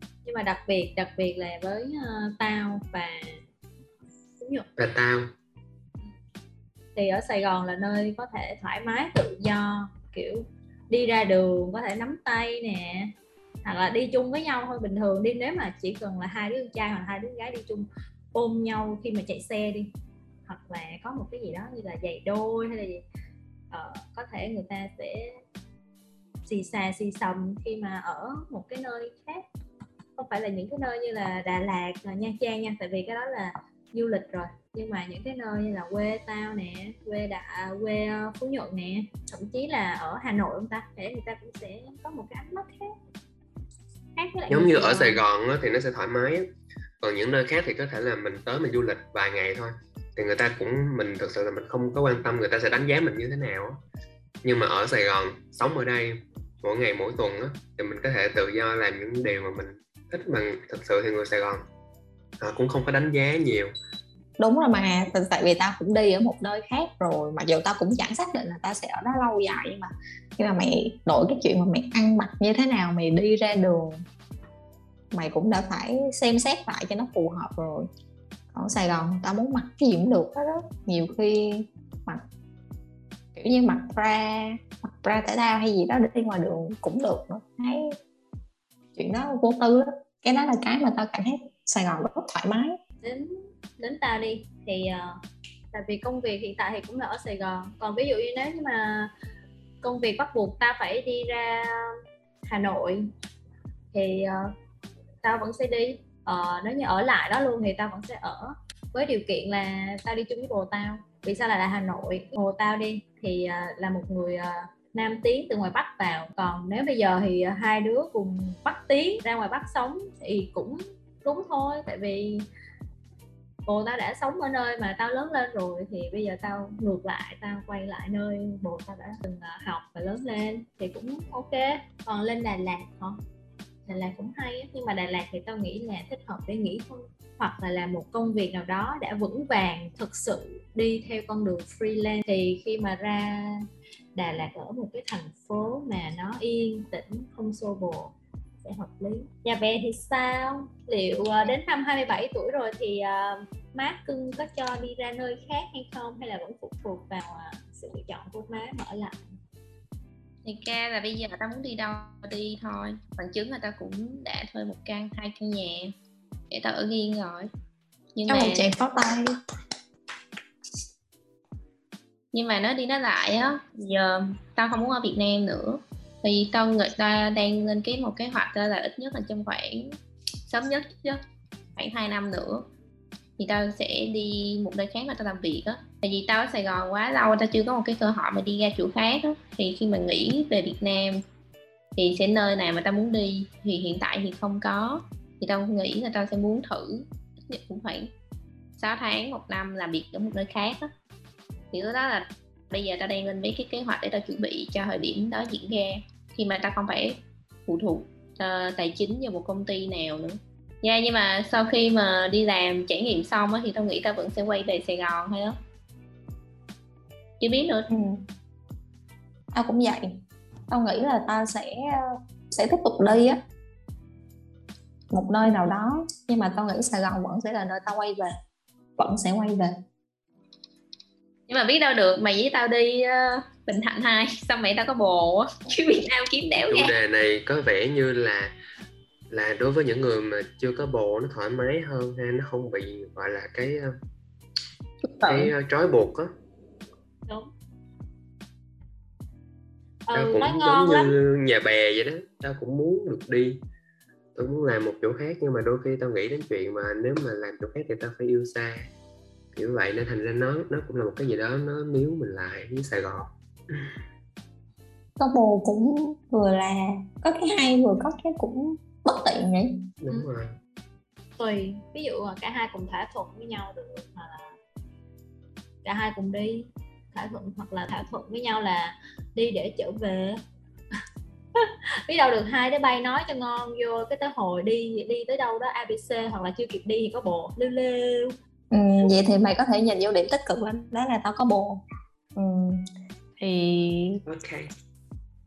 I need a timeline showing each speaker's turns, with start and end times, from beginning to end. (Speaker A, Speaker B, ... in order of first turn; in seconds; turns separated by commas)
Speaker A: 0.2-3.4, Speaker A: 4.4-4.7, Speaker B: 4.8-5.3, Speaker A: 6.9-13.1, Speaker A: 13.6-19.9, Speaker A: 20.5-23.0, Speaker A: 23.7-25.4, Speaker A: 26.4-29.4, Speaker A: 30.2-42.9, Speaker A: 44.1-45.2, Speaker B: 44.5-46.5, Speaker B: 47.0-53.8, Speaker B: 54.4-61.6, Speaker B: 62.4-63.7, Speaker C: 64.4-74.0, Speaker C: 75.1-77.9, Speaker C: 78.5-82.2, Speaker C: 83.3-87.9, Speaker C: 89.0-92.8, Speaker A: 93.0-95.2, Speaker A: 95.7-99.1, Speaker A: 99.8-101.9, Speaker A: 102.5-103.0, Speaker A: 103.9-104.5, Speaker A: 105.2-122.5, Speaker A: 123.7-133.2, Speaker A: 133.8-159.2, Speaker D: 160.4-165.9, Speaker D: 166.5-167.5, Speaker D: 168.1-168.6, Speaker C: 168.3-169.3, Speaker D: 172.3-179.9, Speaker D: 180.5-181.2, Speaker D: 181.8-182.6, Speaker D: 183.4-191.2, Speaker D: 191.9-198.1, Speaker D: 198.8-200.9, Speaker D: 201.7-215.6, Speaker D: 217.4-217.9, Speaker C: 217.9-218.2, Speaker C: 219.5-220.2, Speaker C: 220.7-223.4, Speaker C: 225.1-228.3, Speaker C: 229.0-229.7, Speaker D: 231.5-236.9, Speaker B: 236.6-238.5, Speaker B: 239.3-243.9, Speaker D: 245.1-245.5, Speaker B: 245.2-246.3, Speaker A: 250.1-251.1, Speaker B: 250.1-253.6, Speaker B: 254.3-258.9, Speaker B: 259.5-263.9, Speaker C: 265.2-269.8, Speaker B: 270.0-270.6, Speaker A: 271.4-274.6, Speaker A: 275.8-280.4, Speaker A: 281.6-288.3, Speaker C: 288.7-291.8, Speaker C: 292.3-294.2, Speaker B: 294.2-294.7